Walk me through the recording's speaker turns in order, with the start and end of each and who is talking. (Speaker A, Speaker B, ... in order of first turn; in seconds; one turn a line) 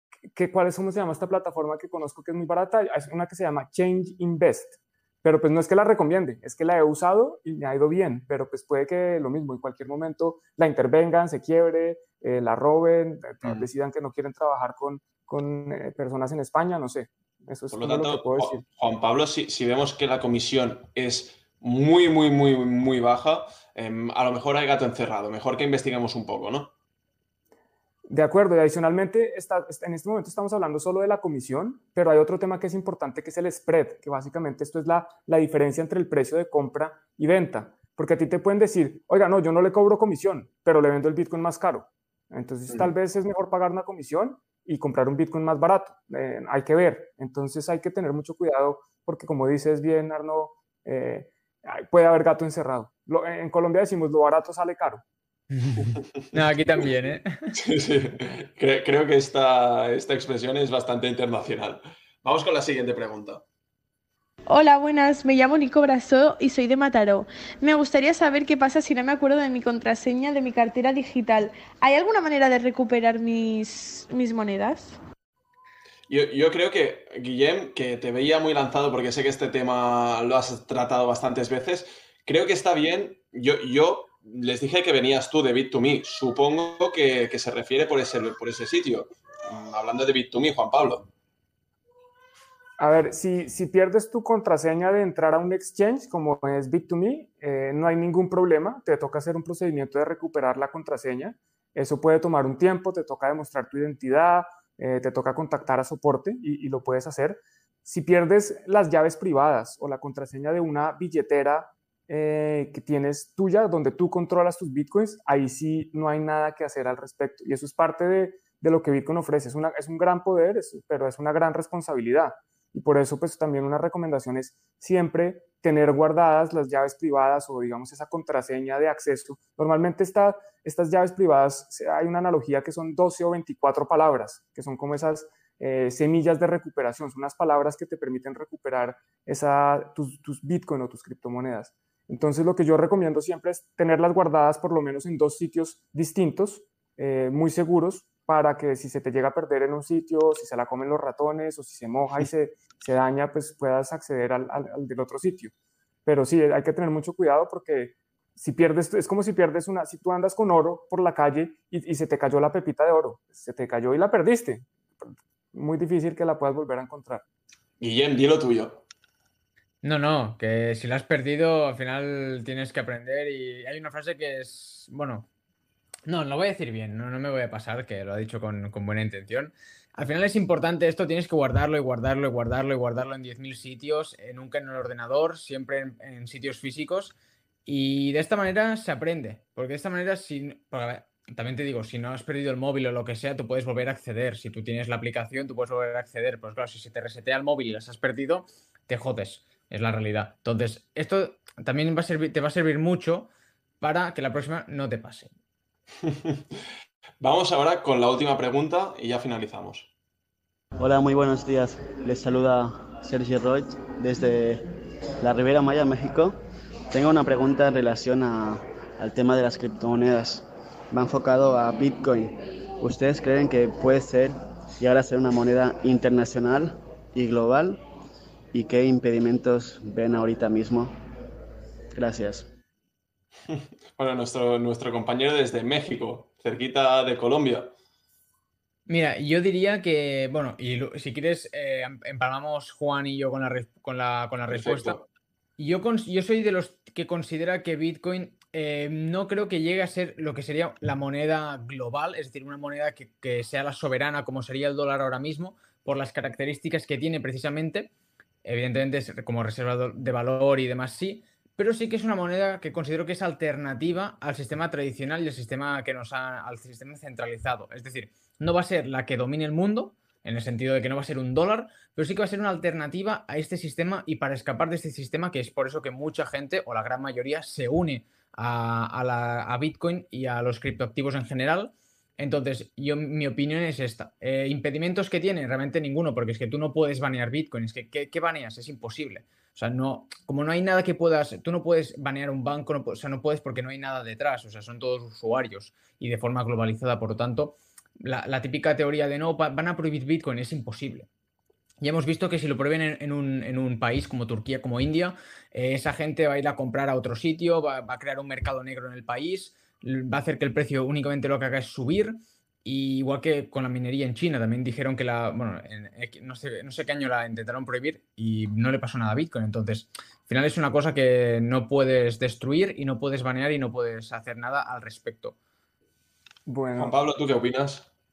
Speaker A: 0.3-18.6
Speaker B: 13.4-13.7
Speaker B: 17.7-26.7
Speaker A: 28.1-55.0
Speaker C: 55.6-57.5
Speaker B: 57.5-63.4
Speaker D: 64.5-75.0
Speaker B: 76.1-91.1
Speaker A: 92.8-155.5
Speaker A: 156.1-167.2
Speaker B: 167.8-168.8
Speaker C: 169.8-175.3
Speaker C: 176.1-205.3
Speaker B: 206.0-206.4
Speaker B: 207.2-209.9
Speaker E: 210.8-214.6
Speaker E: 215.2-216.4
Speaker E: 216.9-227.8
Speaker E: 228.5-231.0
Speaker E: 231.9-232.5
Speaker B: 233.5-237.7
Speaker C: 238.9-245.0
Speaker B: 244.5-245.1
Speaker C: 245.6-257.9
Speaker C: 258.4-301.1
Speaker C: 301.8-325.4
Speaker A: 326.5-326.9
Speaker B: 326.8-327.9